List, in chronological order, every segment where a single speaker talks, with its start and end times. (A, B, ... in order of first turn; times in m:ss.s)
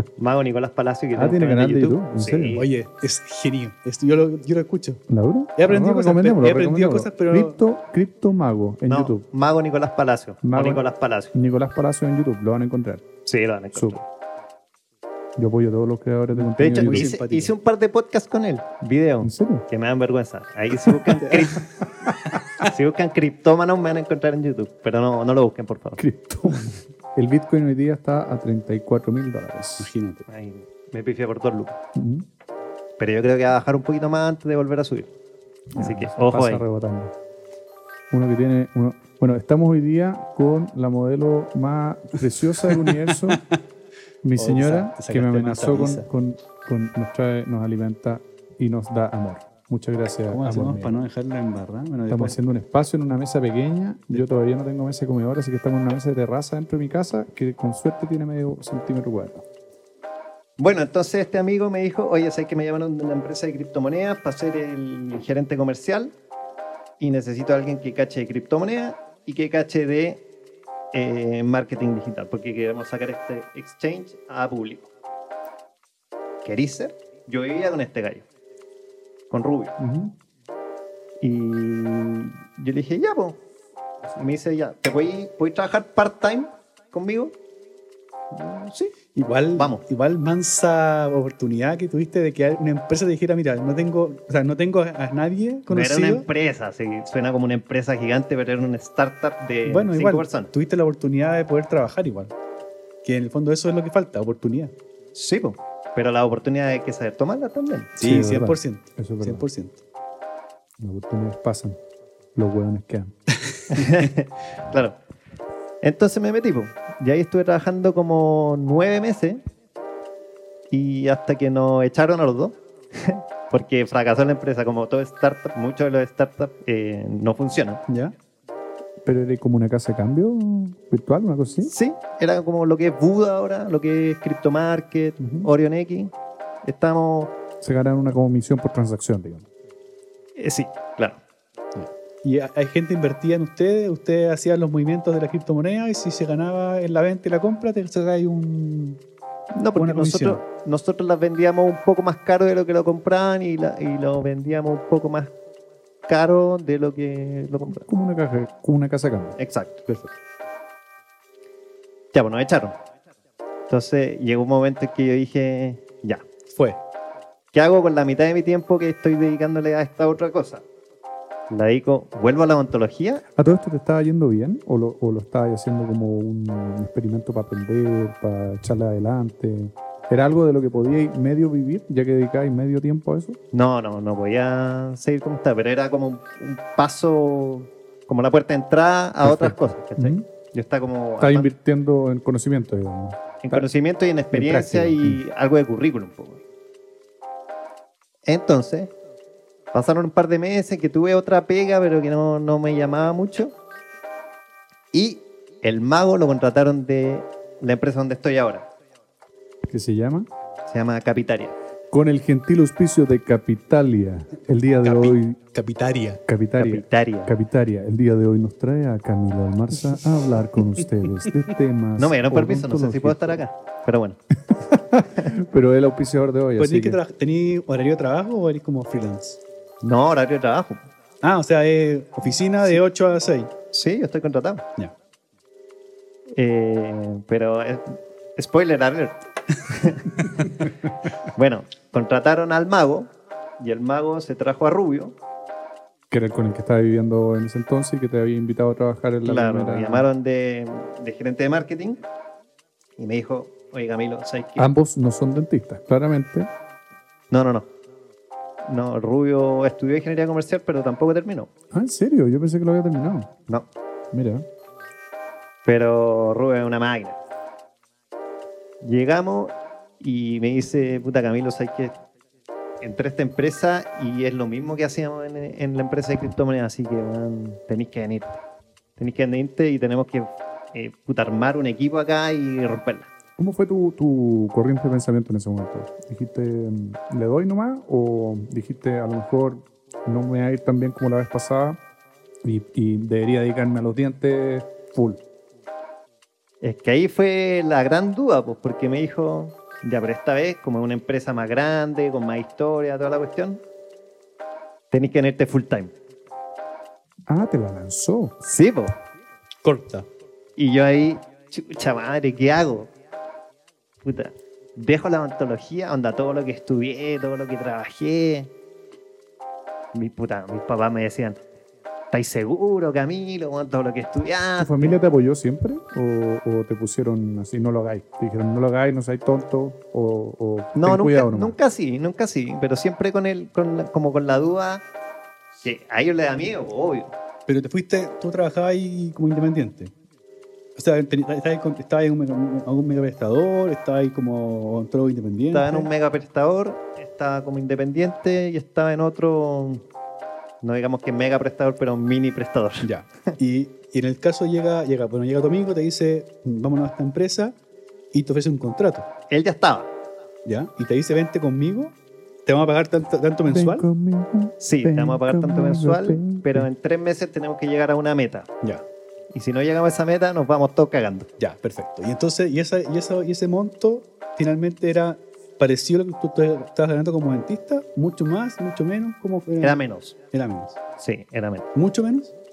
0:00.2-0:02.6 A
0:01.2-0:02.6 B
0:02.5-0:05.0 C
0:05.1-0:09.2 B
0:05.6-0:07.6 C
0:08.9-0:11.3 A
0:10.4-0:13.0 B
0:13.2-0:14.0 A
0:13.7-0:14.0 B
0:15.4-0:17.1 B
0:16.3-0:17.5 C
0:16.6-0:21.8 A
0:19.2-0:19.6 B
0:22.1-0:22.6 B
0:22.6-0:26.0 A
0:26.0-0:29.9 B
0:29.8-0:30.3 C
0:30.3-0:31.8 A
0:31.9-0:32.2 B
0:33.0-0:35.1 A
0:35.7-0:37.1 B
0:35.8-0:36.6 A
0:38.1-0:43.4 B
0:42.6-0:43.4 C
0:44.2-0:51.0 B
0:44.4-0:46.1 C
0:50.3-0:52.4 C
0:52.1-0:59.4 B
1:00.6-1:06.1 A
1:07.0-1:10.2 A
1:10.9-1:14.9 A
1:16.4-1:18.2 A
1:19.3-1:19.7 A
1:19.8-1:20.1 B
1:21.2-1:23.4 A
1:24.0-1:27.3 A
1:28.3-1:28.9 A
1:29.1-1:36.3 C
1:29.5-1:29.8 A
1:35.7-1:40.5 A
1:39.6-1:42.3 C
1:43.0-1:44.7 C
1:45.1-1:47.9 A
1:48.0-1:49.8 C
1:48.0-1:49.4 B
1:50.8-1:51.8 B
1:52.3-1:53.1 B
1:53.7-1:55.0 A
1:55.8-1:59.4 A
2:00.7-2:07.8 A
2:07.9-2:08.1 C
2:09.0-2:11.7 B
2:11.6-2:17.3 A
2:15.2-2:15.5 B
2:17.6-2:19.5 B
2:20.4-2:21.2 A
2:21.8-2:29.0 C
2:29.6-2:35.3 A
2:29.7-2:30.4 C
2:36.1-2:37.8 A
2:37.7-2:39.4 B
2:39.4-2:39.8 A
2:39.9-2:40.1 C
2:42.1-2:42.8 A
2:43.7-2:46.2 A
2:46.5-2:46.8 C
2:47.5-2:50.6 A
2:51.5-2:53.2 A
2:53.4-3:03.4 B
3:03.5-3:11.5 A
3:09.2-3:10.2 B
3:11.2-3:13.7 B
3:13.4-3:16.4 A
3:14.3-3:15.2 B
3:18.2-3:18.9 A
3:19.7-3:23.5 A
3:24.9-3:28.6 A
3:29.6-3:30.3 B
3:30.7-3:31.5 A
3:31.9-3:35.4 B
3:34.8-3:36.2 C
3:36.3-3:43.4 B
3:36.6-3:37.3 A
3:42.0-3:44.2 A
3:44.5-3:47.0 B
3:46.6-3:49.4 C
3:49.8-3:50.8 A
3:51.2-3:53.5 C
3:53.7-3:54.6 A
3:56.4-4:00.6 A
4:01.3-4:05.1 A
4:06.1-4:10.1 B
4:09.2-4:12.0 A
4:13.0-4:14.7 A
4:14.6-4:16.5 B
4:17.3-4:17.7 A
4:18.6-4:21.5 A
4:21.7-4:23.3 B
4:24.1-4:24.4 B
4:25.6-4:27.2 A
4:28.8-4:31.9 A
4:32.8-4:38.4 A
4:39.0-4:43.1 A
4:43.4-4:51.8 B
4:52.4-4:55.2 B
4:56.6-5:03.6 A
5:04.9-5:05.9 A
5:07.3-5:08.3 B
5:08.4-5:08.9 A
5:09.6-5:10.1 C
5:10.6-5:12.9 A
5:14.0-5:18.5 A
5:19.9-5:21.4 A
5:22.1-5:25.0 A
5:24.6-5:31.6 B
5:30.8-5:34.8 A
5:35.6-5:37.1 A
5:37.5-5:39.9 C
5:40.8-5:45.9 C
5:45.5-5:49.8 A
5:50.6-5:53.3 A
5:52.8-5:57.6 C
5:58.1-5:59.1 C
5:59.3-5:59.9 A
6:00.4-6:03.9 C
6:03.5-6:06.7 B
6:04.6-6:08.5 A
6:09.3-6:11.3 A
6:11.4-6:19.8 C
6:19.6-6:20.1 A
6:20.3-6:20.8 C
6:21.0-6:21.7 A
6:21.7-6:22.3 C